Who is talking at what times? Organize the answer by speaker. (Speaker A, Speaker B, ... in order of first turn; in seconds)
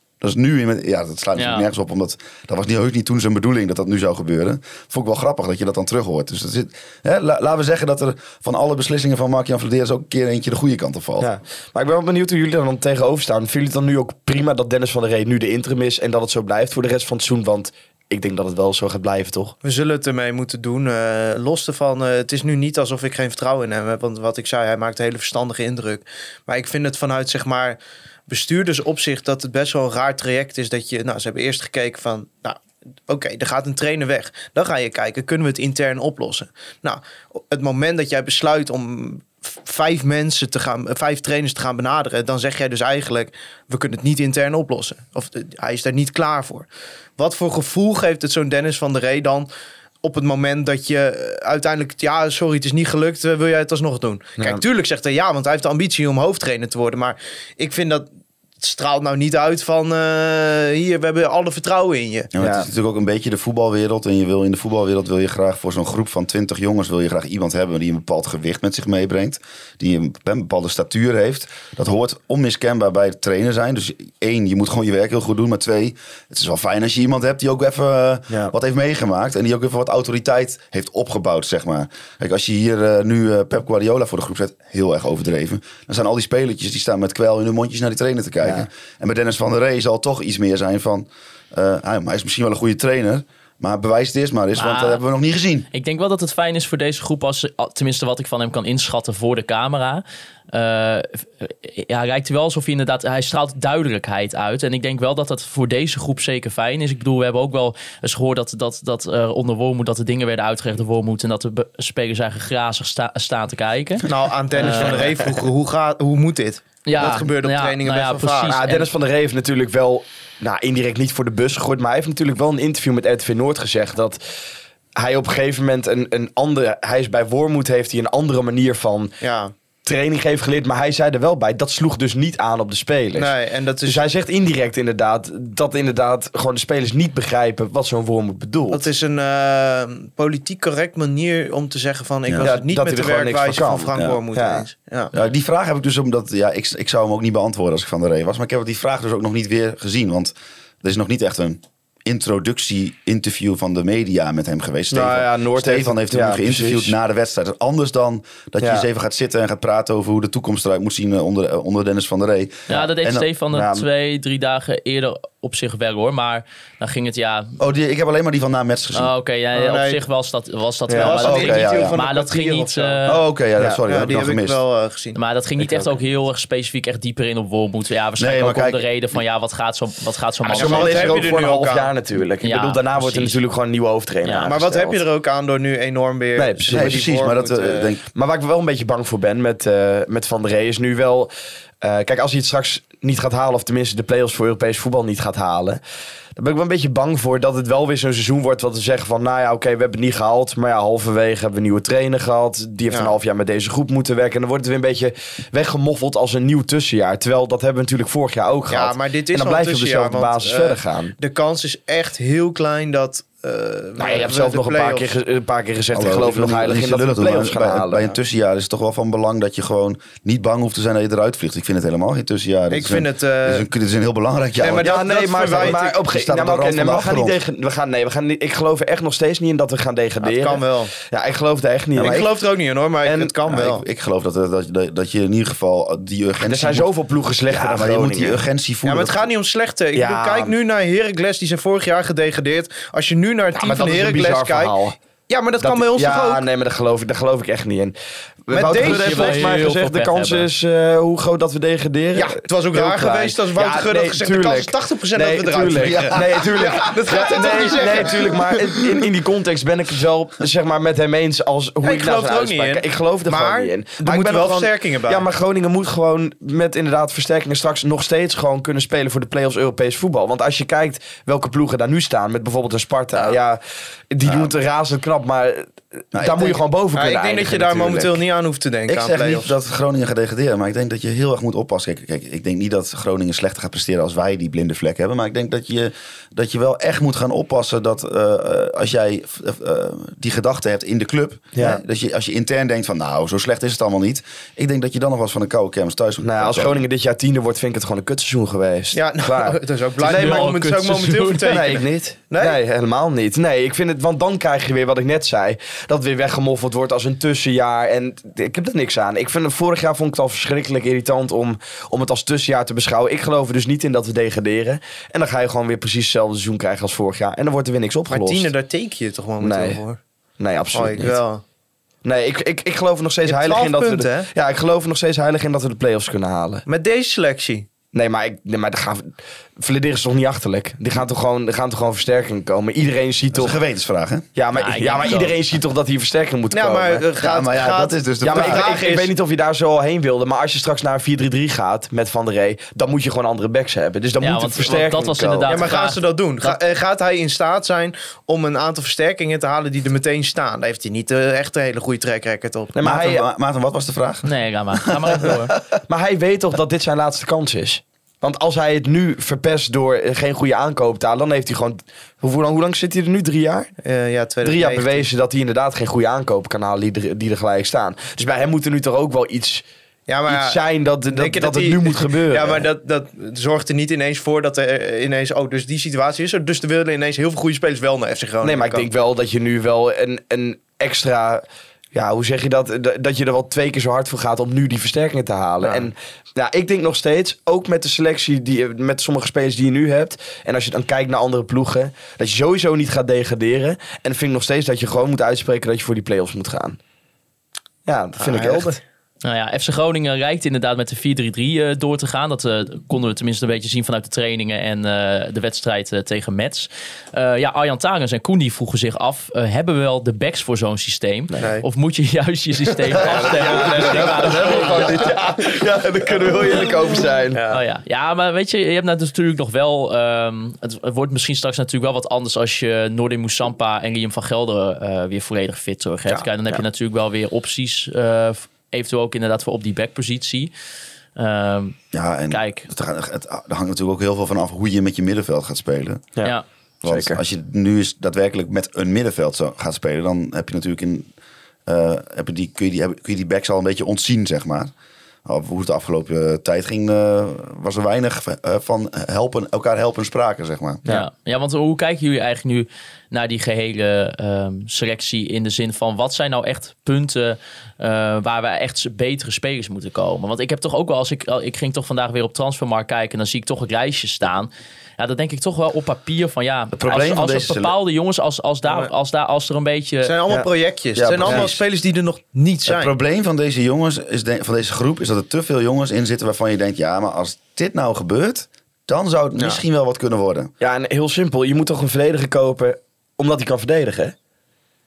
Speaker A: 0.2-11.3, 62.4-95.7, 145.1-163.3, 167.6-169.1, 171.2-172.0, 173.1-174.6, 178.2-178.9, 186.7-188.0, 215.9-227.4, 231.9-232.3, 233.5-236.9, 237.5-239.3, 255.8-257.9, 274.2-274.5, 276.1-276.6, 278.9-296.8, 333.3-334.3, 337.2-338.8, 352.8-355.2, 398.3-398.7, 431.9-436.2, 436.8-441.1, 441.7-444.7, 445.2-450.8, 466.7-467.7, 471.0-471.6, 472.7-480.5
Speaker B: 1.4-1.7, 94.6-95.0, 95.7-115.2, 116.9-118.9, 162.7-167.6, 168.9-173.2, 175.1-181.2, 182.4-183.4, 184.2-184.5, 248.7-250.5, 300.1-301.8, 334.6-335.3, 344.2-346.6, 354.2-355.5, 399.2-415.1, 417.5-430.5, 431.2-431.8, 432.3-432.7, 450.9-470.1
Speaker C: 11.2-19.6, 62.4-62.7, 114.6-115.0, 118.5-124.2, 125.0-129.1, 129.8-133.3, 133.8-138.8, 142.4-144.6, 154.9-156.9, 158.6-158.9, 163.5-163.8, 170.9-171.2, 180.6-185.0, 186.4-187.1, 188.1-195.8, 196.4-211.2, 214.0-218.1, 224.8-232.2, 233.0-233.3, 236.4-238.4, 239.9-240.5, 243.5-244.9, 245.6-278.2, 291.6-291.8, 296.2-300.6, 301.5-318.5, 319.4-319.8, 320.4-321.2, 322.0-326.6, 327.9-333.6, 334.4-337.0, 338.2-345.6, 352.7-353.2, 355.9-363.7, 364.4-369.6, 370.3-372.6, 378.4-381.4, 381.9-396.8, 397.9-398.8, 413.0-417.4, 436.9-437.2, 480.6-484.1
Speaker D: 19.6-46.7, 47.2-49.5, 50.0-58.1, 58.6-62.3, 114.0-118.5, 129.2-129.5, 133.2-134.0, 138.7-145.1, 169.5-170.0, 171.0-173.2, 173.9-175.2, 180.4-181.9, 184.5-187.9, 202.9-203.2, 208.7-215.1, 222.7-223.7, 224.6-226.0, 230.2-230.9, 232.0-233.8, 238.9-246.5, 248.5-249.7, 252.2-258.9, 261.8-265.3, 276.9-279.5, 298.9-302.6, 318.1-320.0, 320.7-321.4, 323.2-324.3, 326.7-327.7, 336.5-339.1, 345.5-352.9, 363.8-365.1, 370.1-378.9, 385.6-385.9, 411.4-411.7, 413.1-415.2, 416.2-416.7, 468.7-468.9, 470.0-472.9